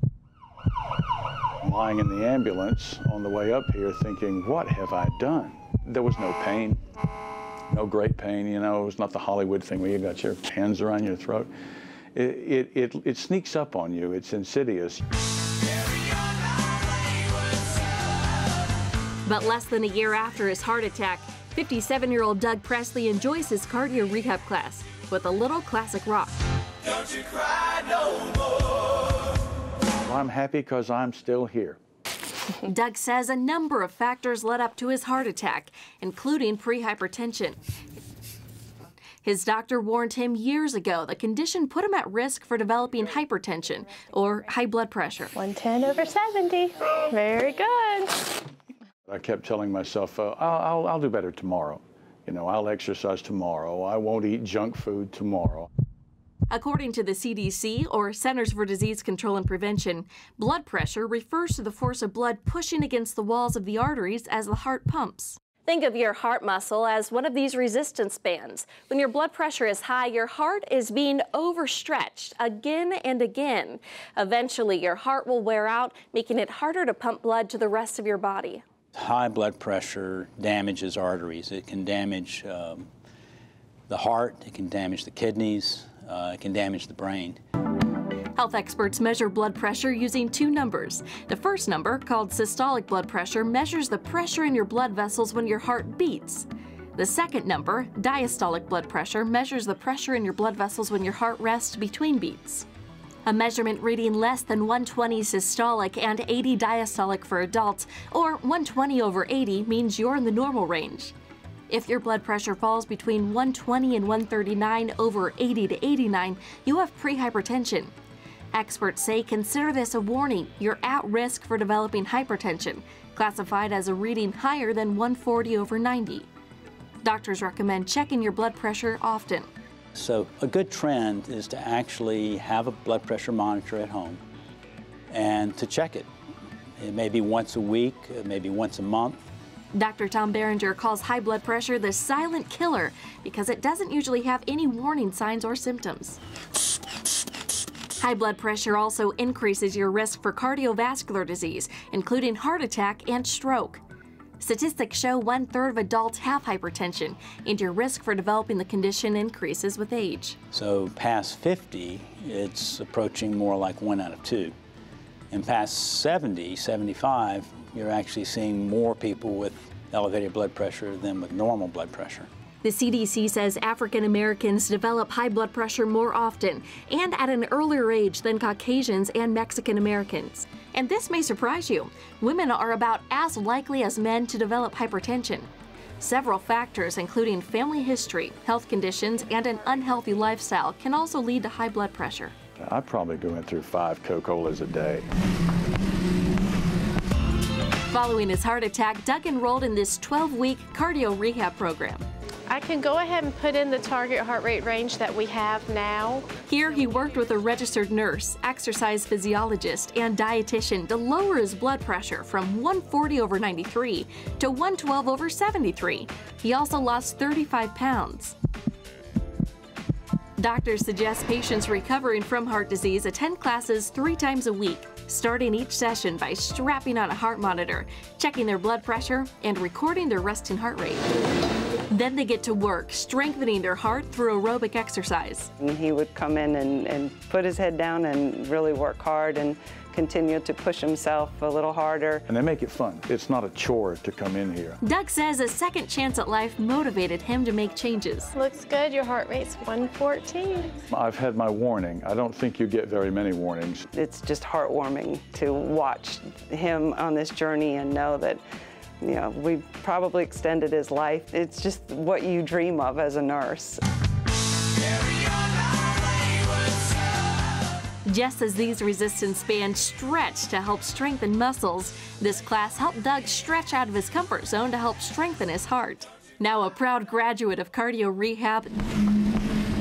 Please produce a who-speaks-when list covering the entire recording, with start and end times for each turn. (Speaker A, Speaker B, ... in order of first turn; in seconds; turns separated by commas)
Speaker A: 1.6-6.8, Speaker A: 7.7-11.5, Speaker A: 12.2-15.0, Speaker B: 19.2-26.3, Speaker A: 30.0-31.8, Speaker B: 32.6-37.6, Speaker B: 39.2-45.3, Speaker C: 45.4-48.1, Speaker A: 49.1-55.7, Speaker B: 56.5-78.6, Speaker D: 79.0-82.9, Speaker D: 83.9-87.4, Speaker B: 88.4-102.7, Speaker B: 103.2-111.1, Speaker B: 111.7-117.9, Speaker B: 118.5-126.3, Speaker B: 127.0-129.5, Speaker D: 129.9-134.2, Speaker D: 135.1-136.1, Speaker D: 136.8-139.2, Speaker B: 139.7-146.2, Speaker B: 148.0-153.8, Speaker B: 154.4-160.4, Speaker D: 160.5-164.5, Speaker D: 165.3-172.3, Speaker B: 172.6-192.3, Speaker A: 192.6-195.1, Speaker B: 197.9-202.0, Speaker C: 202.5-206.2, Speaker B: 206.4-218.3, Speaker B: 220.4-231.2, Speaker B: 231.9-235.5, Speaker E: 235.6-242.2, Speaker A: 242.3-244.8, Speaker B: 244.8-248.3, Speaker C: 248.4-250.7, Speaker A: 250.9-253.9, Speaker E: 253.9-258.4, Speaker E: 259.0-263.8, Speaker B: 268.1-278.7